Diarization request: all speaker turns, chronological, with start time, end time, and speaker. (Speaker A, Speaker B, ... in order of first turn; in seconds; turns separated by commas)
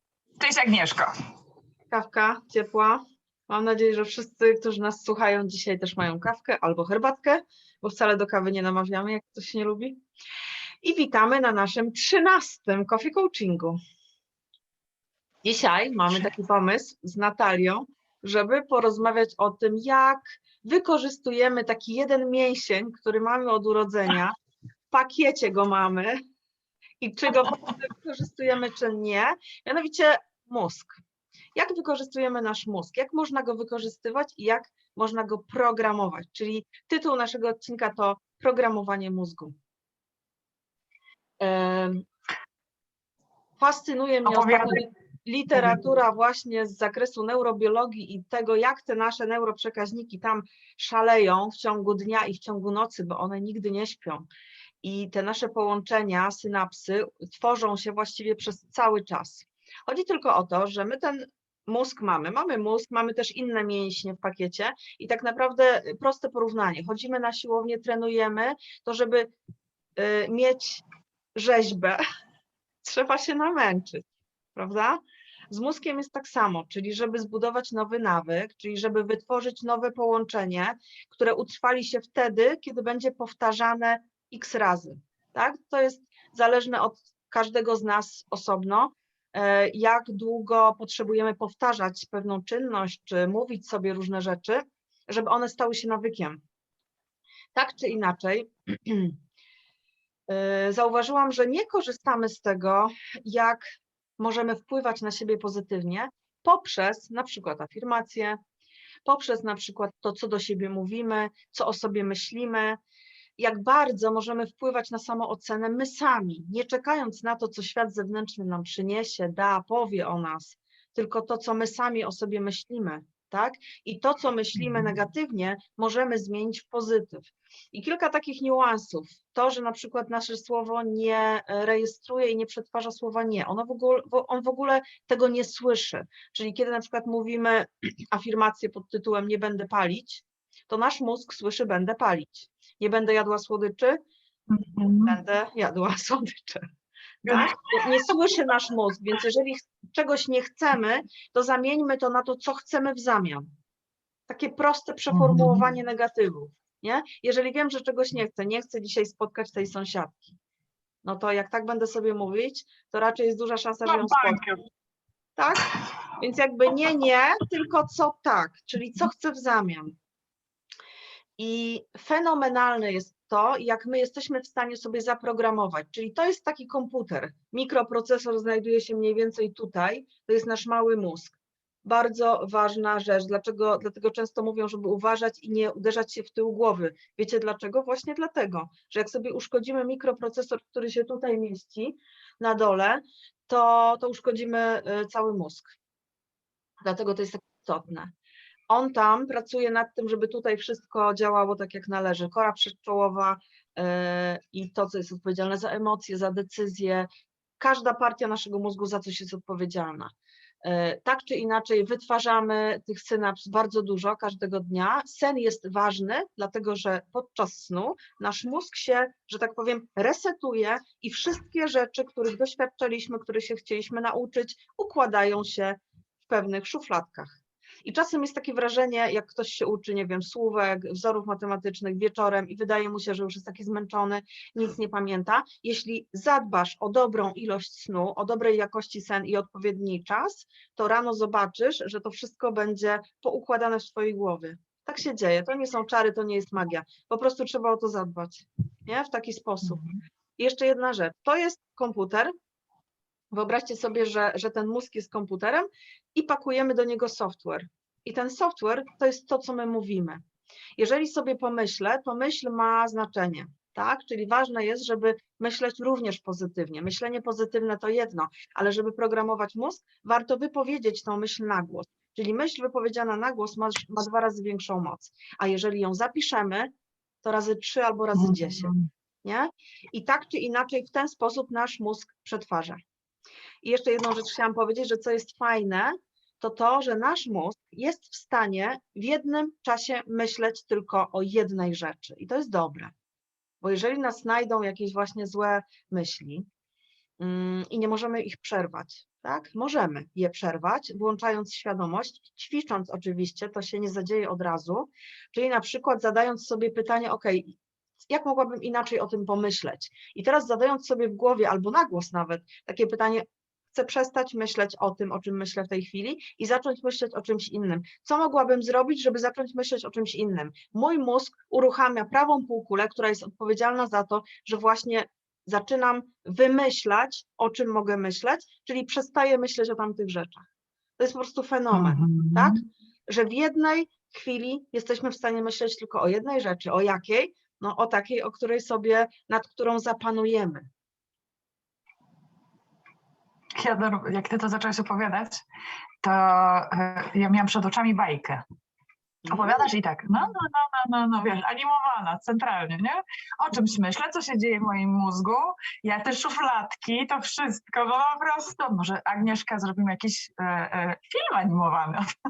Speaker A: 0.4-1.1, Speaker B: 1.9-10.0, Speaker B: 10.8-13.8, Speaker B: 15.4-24.4, Speaker B: 24.9-26.2, Speaker B: 27.0-31.0, Speaker B: 31.6-39.5, Speaker B: 41.4-42.1, Speaker B: 43.6-54.3, Speaker A: 44.3-44.8, Speaker B: 54.8-69.3, Speaker B: 70.0-70.8, Speaker B: 71.4-72.0, Speaker B: 72.8-96.4, Speaker B: 97.5-99.2, Speaker B: 100.3-103.7, Speaker B: 104.2-108.4, Speaker B: 109.0-112.8, Speaker B: 113.4-144.0, Speaker A: 124.6-124.9, Speaker A: 144.5-145.2, Speaker B: 145.0-146.6, Speaker A: 147.2-147.6, Speaker B: 147.3-153.5, Speaker B: 154.3-160.4, Speaker A: 155.1-155.7, Speaker B: 161.0-164.4, Speaker A: 163.9-164.6, Speaker B: 165.4-169.9, Speaker B: 171.4-195.8, Speaker B: 196.8-198.1, Speaker B: 198.7-207.1, Speaker B: 207.6-249.8, Speaker A: 249.6-250.0, Speaker B: 250.4-252.3, Speaker B: 253.3-260.2, Speaker B: 260.8-276.7, Speaker B: 277.2-278.7, Speaker A: 278.1-278.9, Speaker B: 279.2-282.8, Speaker B: 283.6-292.9, Speaker B: 293.6-296.5, Speaker B: 297.2-307.6, Speaker B: 308.1-330.5, Speaker B: 331.0-340.6, Speaker A: 331.7-332.6, Speaker A: 343.6-345.4, Speaker A: 346.0-348.4, Speaker B: 349.3-349.7, Speaker A: 349.3-362.1